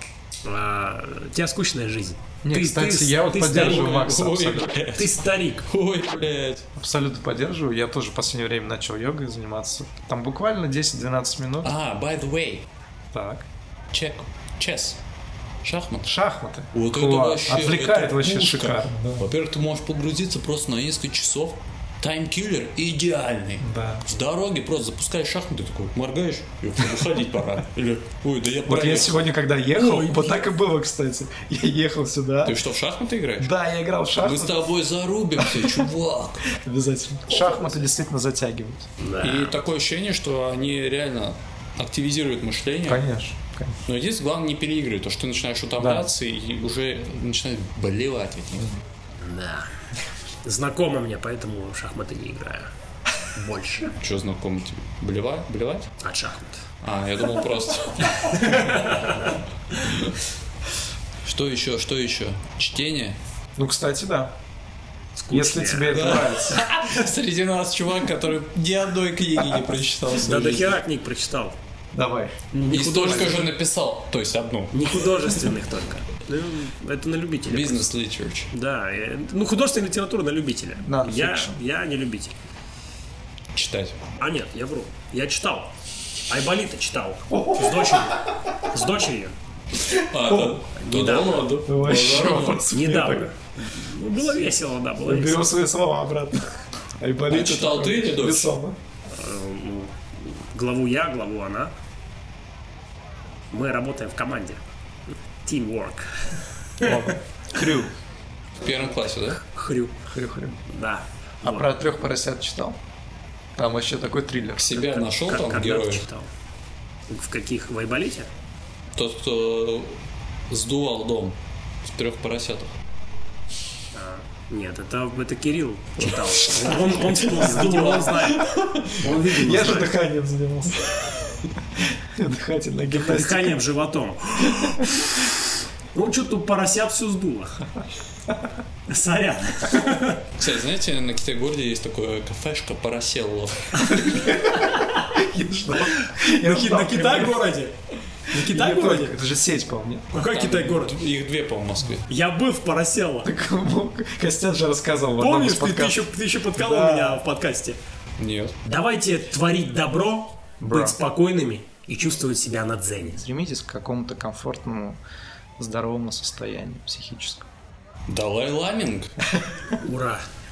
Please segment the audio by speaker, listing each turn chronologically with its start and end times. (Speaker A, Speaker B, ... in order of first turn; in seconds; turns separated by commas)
Speaker A: 0.4-4.0, Speaker B: 2.4-4.7, Speaker C: 3.5-6.7, Speaker A: 5.0-5.7, Speaker B: 6.8-11.7, Speaker C: 11.6-12.6, Speaker B: 13.1-13.4, Speaker C: 13.9-15.0, Speaker C: 15.6-16.1, Speaker B: 16.0-19.2, Speaker C: 16.7-29.3, Speaker B: 23.6-24.0, Speaker B: 28.6-32.6, Speaker A: 29.7-30.5, Speaker C: 32.4-33.5, Speaker B: 33.4-34.5, Speaker C: 34.2-36.4, Speaker B: 35.4-35.9, Speaker B: 36.5-38.9, Speaker A: 37.3-37.7, Speaker A: 39.0-39.6, Speaker C: 39.2-43.0, Speaker B: 42.9-43.8, Speaker C: 43.9-48.7, Speaker B: 45.8-46.1, Speaker A: 49.2-49.7, Speaker A: 50.4-52.7, Speaker A: 53.3-53.9, Speaker C: 54.0-55.9, Speaker A: 56.0-56.6, Speaker C: 56.8-58.8, Speaker A: 58.3-59.3, Speaker C: 59.7-60.2, Speaker C: 61.2-63.2, Speaker B: 63.6-64.3, Speaker A: 65.2-66.2, Speaker B: 65.3-66.6, Speaker C: 65.9-70.8, Speaker A: 70.1-71.5, Speaker B: 71.9-72.3, Speaker A: 72.5-73.5, Speaker C: 72.7-74.8, Speaker A: 74.7-77.9, Speaker C: 77.5-78.5, Speaker A: 78.5-82.3, Speaker B: 80.8-81.6, Speaker C: 83.5-84.0, Speaker A: 84.2-85.7, Speaker A: 86.3-89.3, Speaker B: 87.3-88.3, Speaker C: 89.8-92.7, Speaker B: 90.1-90.6, Speaker A: 90.8-91.6, Speaker B: 91.6-93.3, Speaker A: 92.3-95.5, Speaker B: 95.0-98.8, Speaker C: 97.3-98.5, Speaker A: 99.1-101.7, Speaker A: 103.5-104.6, Speaker A: 105.4-107.0, Speaker B: 106.8-107.9, Speaker C: 108.6-109.4, Speaker A: 109.4-109.9, Speaker B: 110.1-110.6, Speaker A: 110.7-111.7, Speaker B: 111.4-112.8, Speaker B: 113.5-114.7, Speaker C: 114.6-116.0, Speaker A: 114.7-116.3, Speaker A: 117.1-118.3, Speaker C: 119.0-120.0, Speaker C: 120.5-122.8, Speaker A: 123.9-128.5, Speaker B: 126.8-127.8, Speaker C: 127.1-129.3, Speaker A: 129.0-129.9, Speaker B: 129.0-133.6, Speaker A: 132.9-137.6, Speaker B: 134.5-134.8, Speaker A: 138.9-140.2, Speaker C: 140.4-144.0, Speaker B: 143.8-147.5, Speaker A: 146.0-147.7, Speaker A: 148.3-149.2, Speaker B: 148.3-150.1, Speaker A: 150.1-151.0, Speaker C: 150.1-152.1, Speaker A: 152.1-153.3, Speaker B: 153.2-157.2, Speaker A: 155.2-157.8, Speaker C: 158.2-158.5, Speaker A: 158.6-163.2, Speaker B: 160.6-161.0, Speaker B: 163.0-165.0, Speaker B: 165.6-167.4, Speaker C: 168.1-169.1, Speaker A: 169.8-170.2